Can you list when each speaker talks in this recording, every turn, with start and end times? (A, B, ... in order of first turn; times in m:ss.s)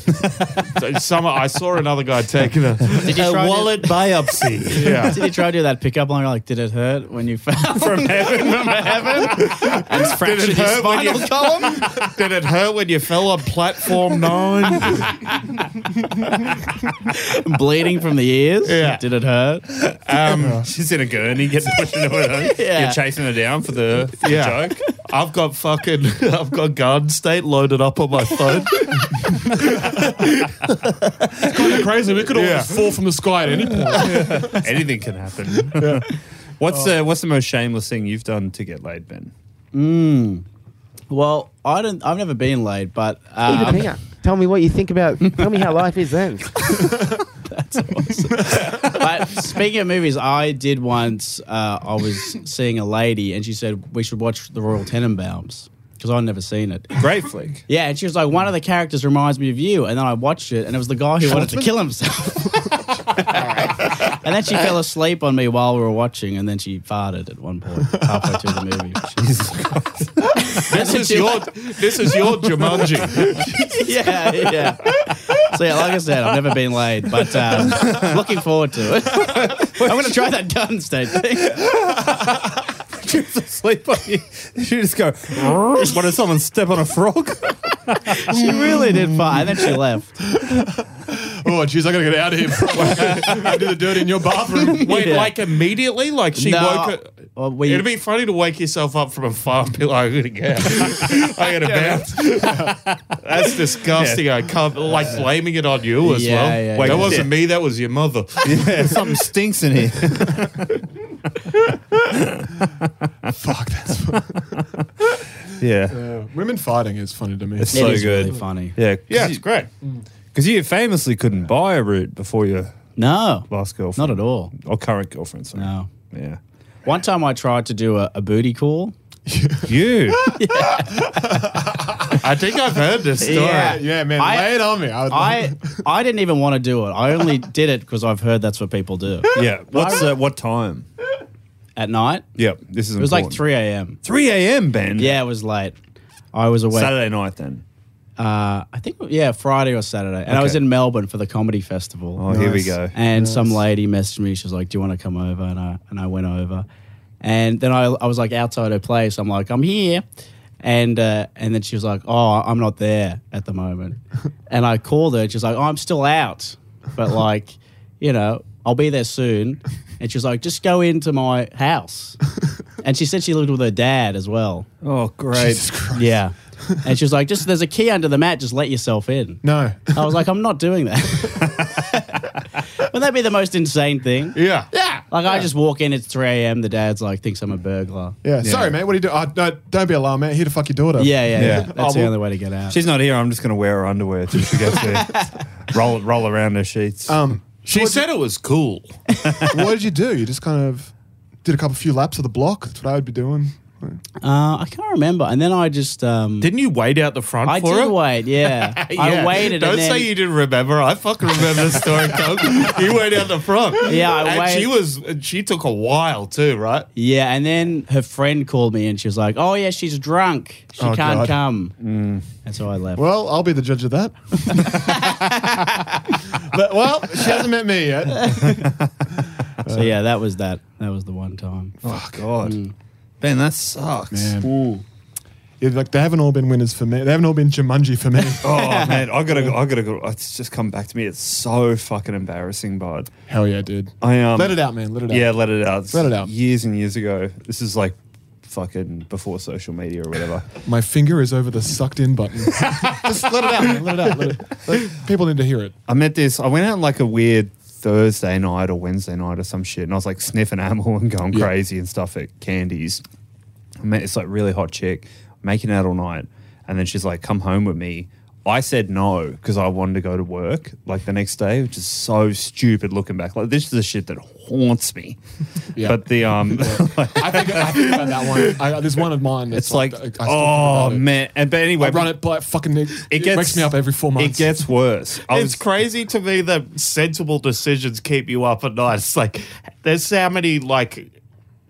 0:00.8-0:05.2 A
0:03.0-0:03.8 B
0:03.8-0:05.1 C
0:04.8-0:11.8 B
0:07.7-0:09.5 C
0:09.5-0:15.2 A
0:17.1-0:19.6 B
0:18.6-0:19.0 A
0:19.8-0:24.8 C
0:20.1-0:20.6 A
0:20.4-0:20.7 D
0:22.5-0:23.0 B
0:24.2-0:30.7 A
0:29.6-0:30.1 D
0:31.4-0:34.7 D
0:32.3-0:32.9 A
0:33.9-0:39.3 C
0:35.6-0:36.1 D
0:39.7-0:40.4 B
0:41.1-0:43.9 B
0:43.4-0:46.9 E
0:46.8-0:47.2 D
0:47.5-0:57.0 B
0:48.3-0:49.1 D
0:57.0-0:57.6 C
0:57.7-1:09.2 B
1:01.2-1:02.7 D
1:03.3-1:03.8 A
1:07.9-1:08.3 D
1:09.2-1:10.5 C
1:10.5-1:11.5 B
1:10.7-1:13.2 A
1:13.1-1:13.6 D
1:13.4-1:13.7 C
1:13.8-1:21.6 B
1:17.6-1:18.2 C
1:19.2-1:20.2 C
1:21.5-1:28.6 C
1:28.3-1:29.4 D
1:28.3-1:30.2 B
1:30.2-1:34.9 D
1:32.8-1:33.5 C
1:34.7-1:35.3 B
1:34.8-1:42.7 A
1:36.4-1:37.9 B
1:42.3-1:42.8 D
1:43.2-1:49.1 A
1:43.9-1:44.2 C
1:46.0-1:47.2 B
1:46.8-1:47.3 C
1:48.4-1:50.8 C
1:51.9-1:53.3 C
1:53.3-1:54.6 D
1:55.6-1:56.0 C
1:55.9-1:58.4 D
1:57.6-1:59.5 C
1:57.7-1:58.8 B
1:59.1-1:59.7 A
2:00.3-2:02.8 C
2:03.0-2:04.5 B
2:03.5-2:06.4 C
2:05.5-2:05.9 B
2:06.9-2:08.9 B
2:09.3-2:12.3 D
2:09.7-2:10.4 C
2:10.4-2:10.9 B
2:12.2-2:13.8 A
2:13.2-2:20.0 B
2:13.2-2:15.9 D
2:19.3-2:20.9 C
2:21.8-2:22.3 B
2:22.4-2:23.4 C
2:23.0-2:24.0 B
2:24.0-2:25.2 C
2:25.0-2:25.8 B
2:26.3-2:26.9 B
2:26.7-2:27.6 C
2:28.2-2:36.7 B
2:30.3-2:30.6 C
2:32.2-2:32.9 C
2:32.3-2:33.6 D
2:37.2-2:40.0 B
2:40.6-2:52.2 B
2:52.8-2:54.7 B
2:54.8-2:55.6 C
2:55.3-2:56.8 D
2:55.9-2:59.4 B
2:59.4-3:00.2 D
2:59.9-3:02.1 B
3:02.8-3:04.4 B
3:04.4-3:04.7 A
3:04.7-3:05.4 D
3:05.1-3:08.2 B
3:08.2-3:12.2 D
3:08.4-3:08.8 C
3:11.0-3:12.8 B
3:11.4-3:11.7 C
3:12.7-3:17.2 C
3:14.7-3:15.2 B
3:17.1-3:18.0 D
3:17.6-3:19.0 A
3:19.5-3:20.9 D
3:21.4-3:24.0 D
3:24.2-3:26.5 B
3:26.4-3:28.0 A
3:27.4-3:30.1 B
3:28.8-3:36.9 A
3:33.8-3:34.7 B
3:37.0-3:41.8 B
3:40.8-3:41.4 D
3:41.8-3:42.3 C
3:42.4-3:43.1 B
3:43.0-3:45.0 D
3:44.9-3:45.9 B
3:46.3-3:48.6 D
3:48.2-3:48.6 B
3:49.6-3:50.0 D
3:49.7-3:52.7 B
3:51.8-3:52.6 C
3:53.2-3:54.8 C
3:54.1-3:54.5 D
3:55.6-3:58.6 D
3:58.4-4:03.1 C
3:58.5-3:59.0 B
4:03.3-4:06.3 D
4:04.0-4:10.5 C
4:10.6-4:15.8 D
4:15.9-4:23.0 C
4:23.8-4:35.2 C
4:35.8-4:41.1 D
4:35.8-4:38.5 C
4:39.5-4:42.2 C
4:41.8-4:44.7 D
4:43.1-4:45.6 C
4:45.3-4:51.1 A